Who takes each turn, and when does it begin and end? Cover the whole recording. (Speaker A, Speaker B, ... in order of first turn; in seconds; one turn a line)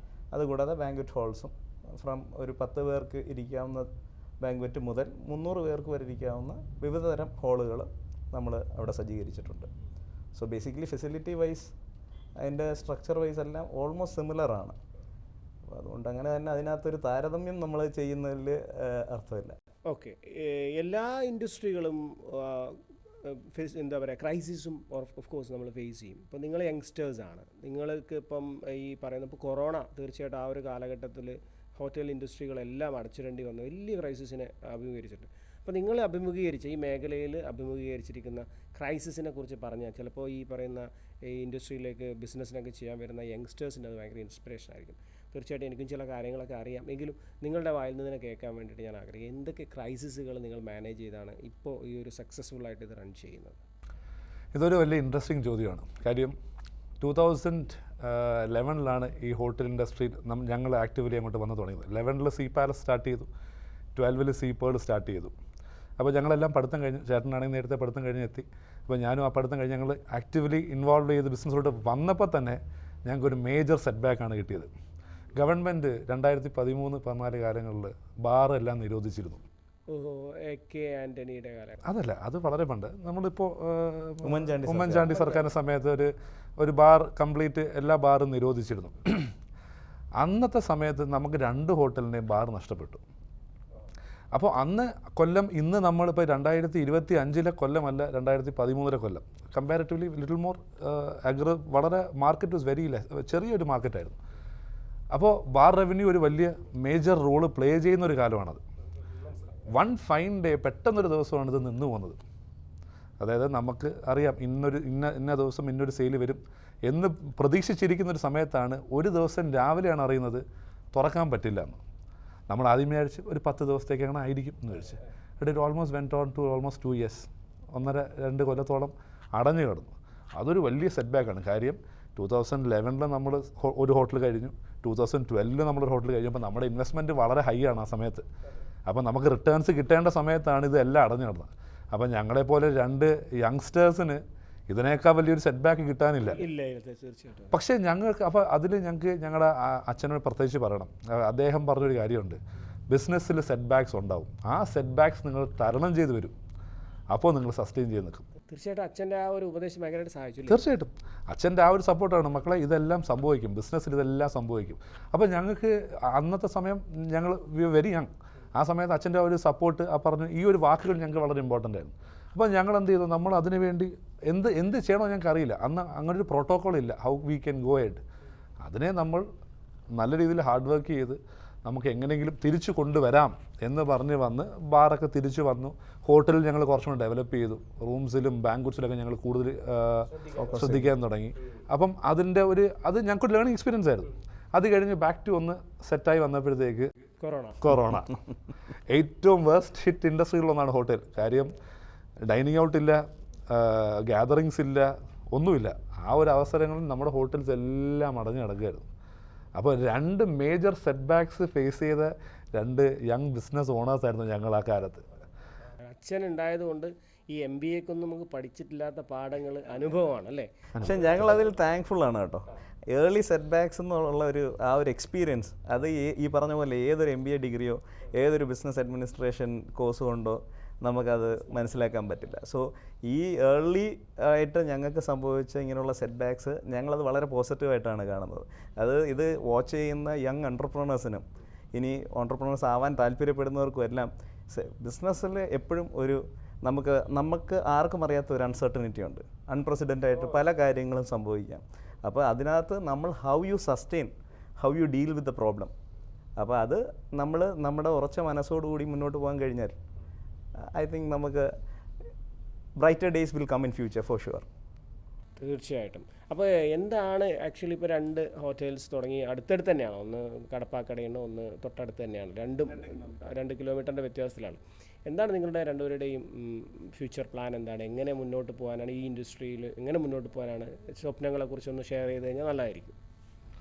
Speaker A: 0.3-3.9
Speaker A: 4.4-9.7
Speaker A: 10.3-11.7
Speaker A: 12.4-14.8
Speaker A: 15.7-19.6
Speaker B: 19.9-53.6
Speaker C: 54.5-56.3
Speaker C: 57.0-63.3
Speaker C: 64.0-65.3
Speaker C: 66.0-74.7
Speaker C: 75.4-79.4
Speaker B: 79.9-81.8
Speaker C: 81.9-89.3
Speaker A: 84.2-85.2
Speaker C: 90.2-93.0
Speaker C: 94.3-104.2
Speaker C: 105.1-108.6
Speaker C: 109.7-112.2
Speaker C: 113.2-121.8
Speaker C: 122.5-138.2
Speaker C: 138.9-146.4
Speaker B: 146.3-147.6
Speaker C: 147.5-152.4
Speaker C: 152.9-156.3
Speaker C: 157.1-158.3
Speaker B: 158.5-160.6
Speaker C: 160.5-178.0
Speaker C: 178.6-179.2
Speaker C: 180.0-196.9
Speaker A: 190.3-190.9
Speaker B: 197.2-197.6
Speaker C: 197.6-198.1
Speaker C: 198.9-201.5
Speaker C: 202.3-208.9
Speaker C: 209.6-215.0
Speaker B: 215.9-220.5
Speaker A: 220.8-255.7
Speaker A: 256.4-259.8
Speaker A: 260.7-261.5
Speaker A: 262.8-264.5
Speaker B: 265.4-283.0